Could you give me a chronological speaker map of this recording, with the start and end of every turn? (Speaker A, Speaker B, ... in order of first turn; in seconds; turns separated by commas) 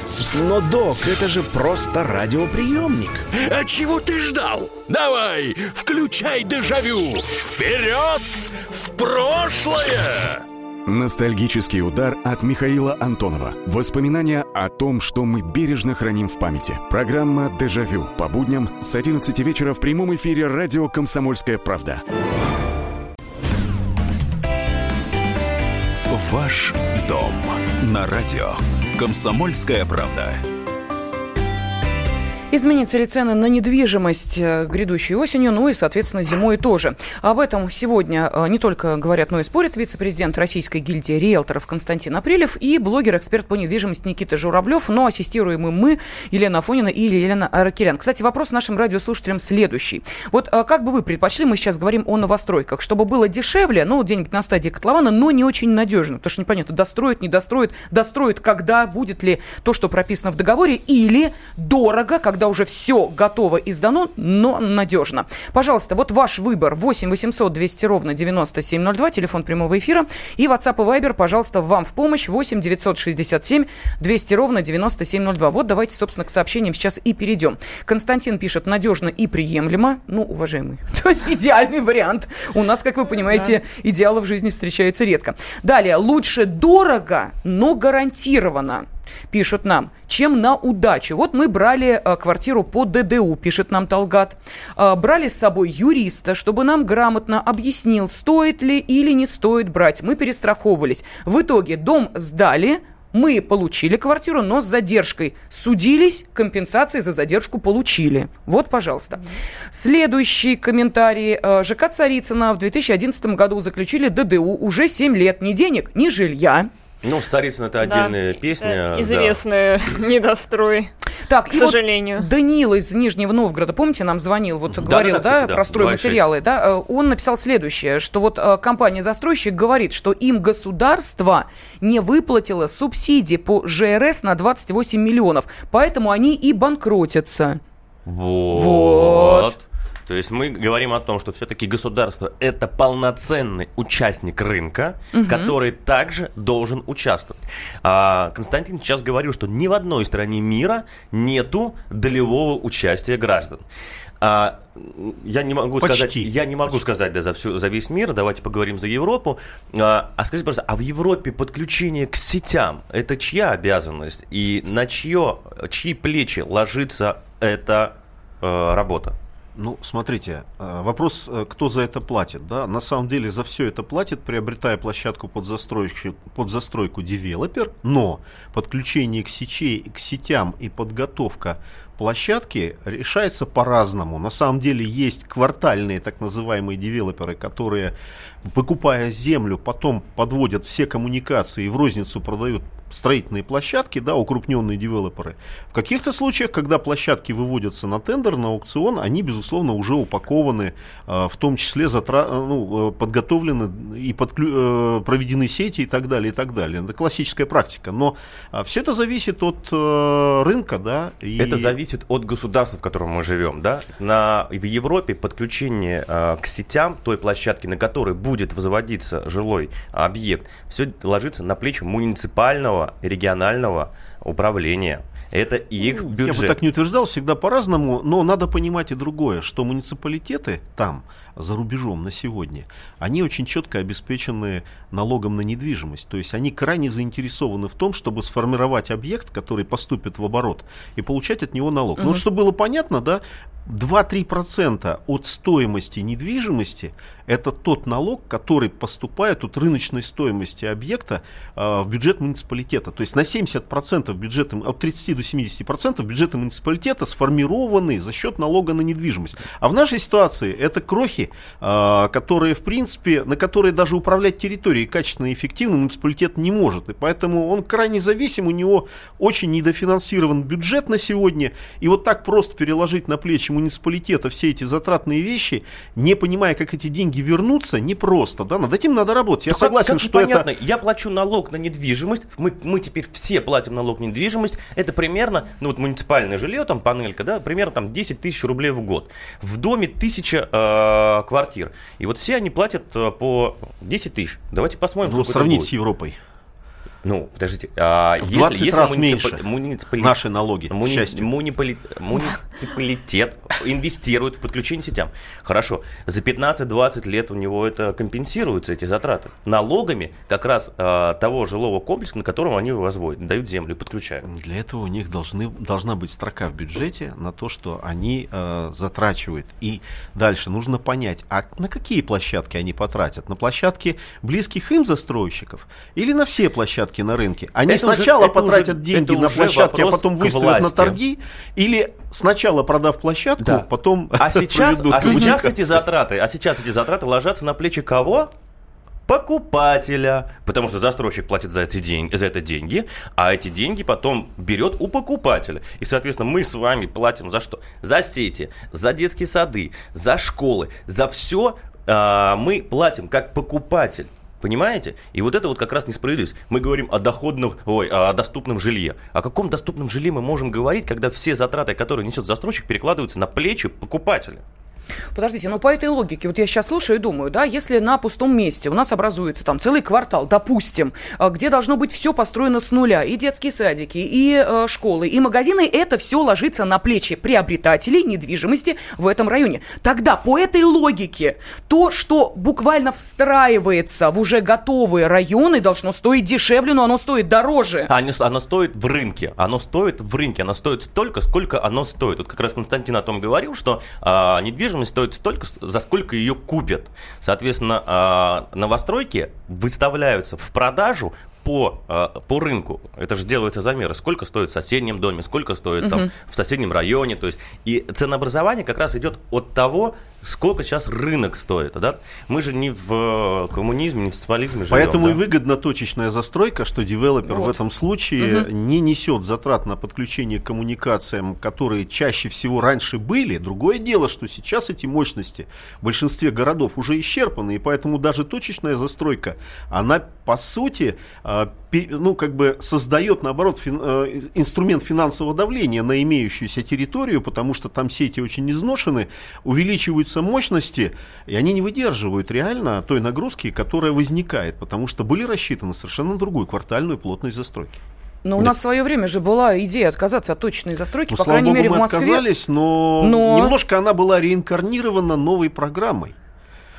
Speaker A: 0.3-3.3, Speaker B: 3.3-10.4, Speaker C: 10.9-22.0, Speaker D: 26.1-30.4, Speaker E: 32.5-116.7, Speaker F: 117.0-119.4, Speaker G: 117.8-120.9, Speaker E: 121.3-137.6, Speaker G: 121.5-122.3, Speaker F: 124.7-126.3, Speaker F: 138.1-153.6, Speaker E: 138.5-139.5, Speaker E: 145.1-145.5, Speaker F: 154.2-169.2, Speaker H: 155.8-156.3, Speaker H: 169.6-211.8, Speaker F: 211.4-226.6, Speaker H: 225.8-280.5, Speaker F: 279.5-295.7, Speaker H: 295.0-296.2, Speaker F: 297.0-300.2, Speaker H: 298.2-299.4, Speaker H: 300.0-301.3, Speaker F: 300.7-314.2, Speaker H: 314.2-335.8, Speaker F: 327.7-331.0, Speaker F: 333.4-338.3, Speaker F: 339.1-364.4, Speaker E: 365.1-387.9, Speaker F: 387.9-415.2, Speaker E: 405.8-406.1, Speaker H: 414.7-447.8, Speaker E: 417.3-417.5, Speaker E: 418.2-418.5, Speaker E: 448.2-452.3, Speaker H: 451.1-456.1, Speaker E: 453.0-453.5